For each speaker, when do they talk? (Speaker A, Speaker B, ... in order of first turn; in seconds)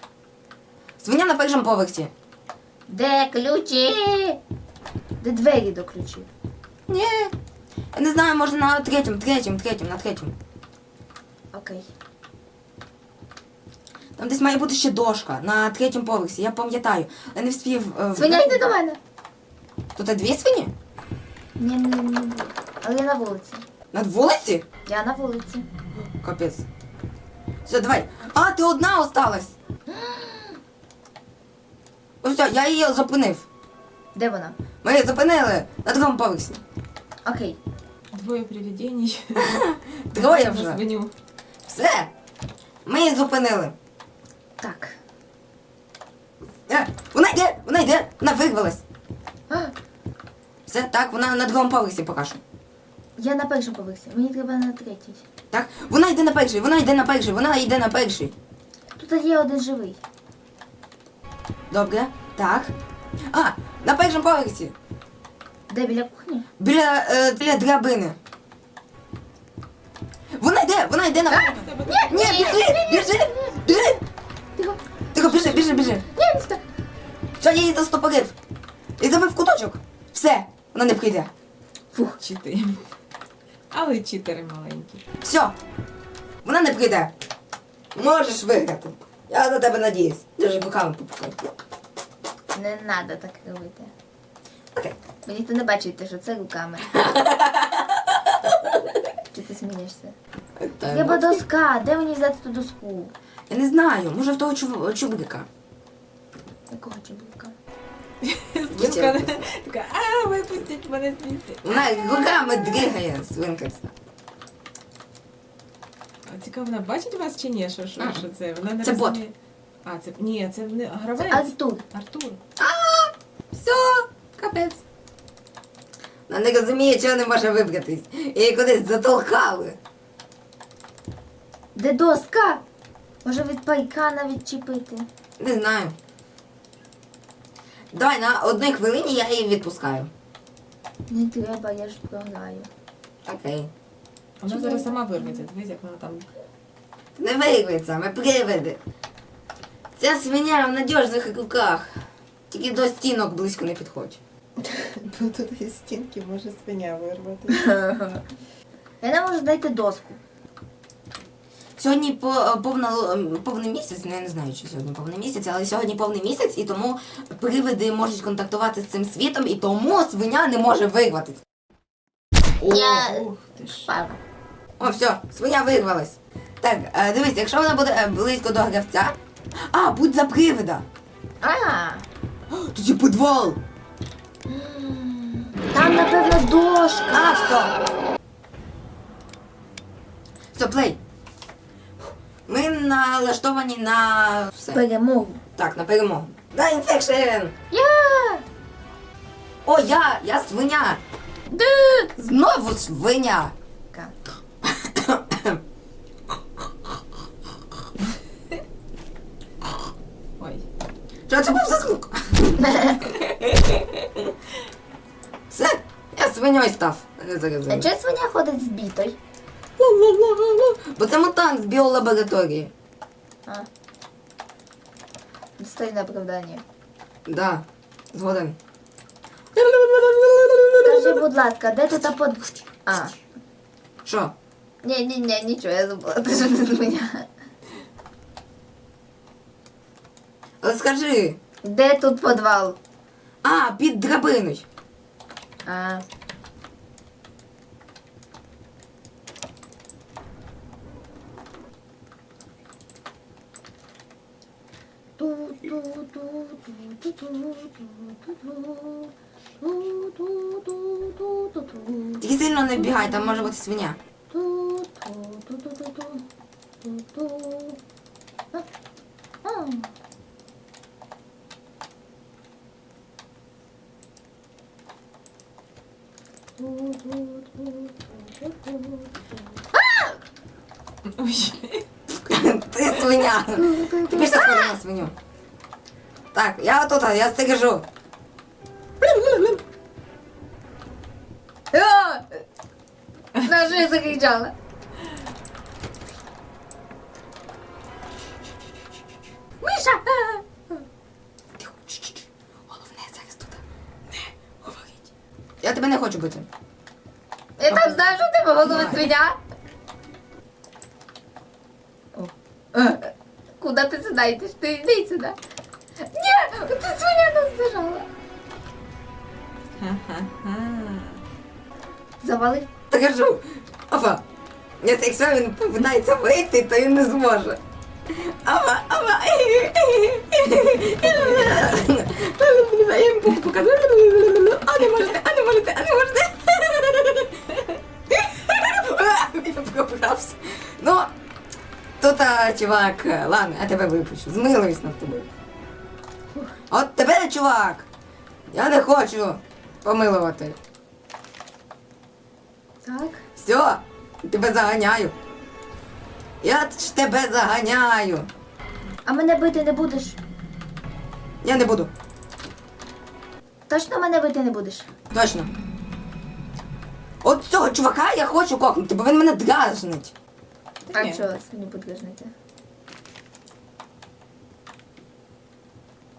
Speaker A: 1.0-2.1, 6.9-7.3, 7.9-10.3, 14.2-18.6, 20.0-20.7, 23.9-24.6, 26.2-26.6, 27.6-29.5, 32.2-33.5, 34.8-36.6, 39.4-40.8, 41.7-42.1, 42.9-43.8, 46.7-48.8, 50.7-52.4, 55.5-58.3, 61.7-62.7, 63.3-64.7, 66.6-68.2, 70.4-74.0, 75.1-76.0, 77.4-78.3, 79.0-81.3, 85.2-85.6, 86.4-87.1, 87.9-91.6, 96.9-98.8, 100.6-101.4, 103.5-105.5, 108.7-109.4, 111.6-113.9, 118.0-118.2, 118.8-119.2, 122.6-124.8, 126.3-129.8, 135.4-135.9, 137.9-140.1, 143.3-143.7, 147.2-148.8, 150.0-154.2, 161.8-171.4, 174.8-179.2, 179.7-180.8, 182.5-183.6, 187.1-187.7, 190.5-191.0, 192.5-194.8, 195.6-197.5, 199.7-201.0, 202.2-203.5, 204.6-205.6, 211.3-213.2, 215.5-217.9, 219.8-222.7, 227.3-228.6, 229.6-231.2, 234.1-234.3, 240.6-241.4, 243.4-244.7, 262.2-264.0, 282.1-285.1, 286.3-287.9, 301.6-303.6, 305.6-306.5, 308.6-309.1, 322.9-324.2, 324.8-341.1, 342.0-345.3, 346.7-347.9, 348.5-350.6, 353.4-355.1, 356.4-358.3, 361.4-361.9, 365.1-365.5, 367.2-370.1
Speaker B: 2.9-4.4, 5.2-6.3, 11.5-11.9, 18.1-19.0, 21.6-23.6, 24.9-25.7, 29.9-30.6, 34.1-34.6, 37.2-37.6, 44.6-45.0, 53.2-55.2, 59.0-60.0, 65.7-66.5, 71.3-73.8, 74.6-76.6, 92.5-93.9, 95.3-97.0, 99.3-100.2, 100.9-103.1, 106.7-107.5, 121.2-121.8, 131.8-132.6, 133.2-135.1, 141.1-142.7, 144.5-145.4, 157.5-158.2, 159.0-160.2, 172.6-173.2, 173.9-174.2, 181.4-182.1, 184.5-187.6, 194.7-195.4, 197.7-198.4, 201.5-202.1, 212.6-213.1, 217.7-219.2, 225.6-226.6, 230.8-233.2, 234.8-237.3, 241.6-242.8, 245.7-246.0, 255.2-263.5, 264.3-266.2, 266.8-267.8, 269.4-269.9, 276.6-280.2, 283.5-284.8, 291.7-292.4, 293.4-294.5, 299.6-300.4, 307.6-309.4, 312.2-315.4, 316.1-318.1, 322.2-322.7, 352.8-353.2, 359.1-360.2, 363.7-364.9, 370.9-372.3
Speaker C: 38.1-41.1, 71.3-72.6, 82.2-82.8, 83.7-85.0, 108.2-111.7, 116.3-119.3, 119.8-122.4, 144.4-146.3, 154.6-157.7, 172.6-173.9, 210.4-210.6, 281.1-281.9, 289.0-289.6, 319.8-321.2, 331.0-331.6, 370.9-371.3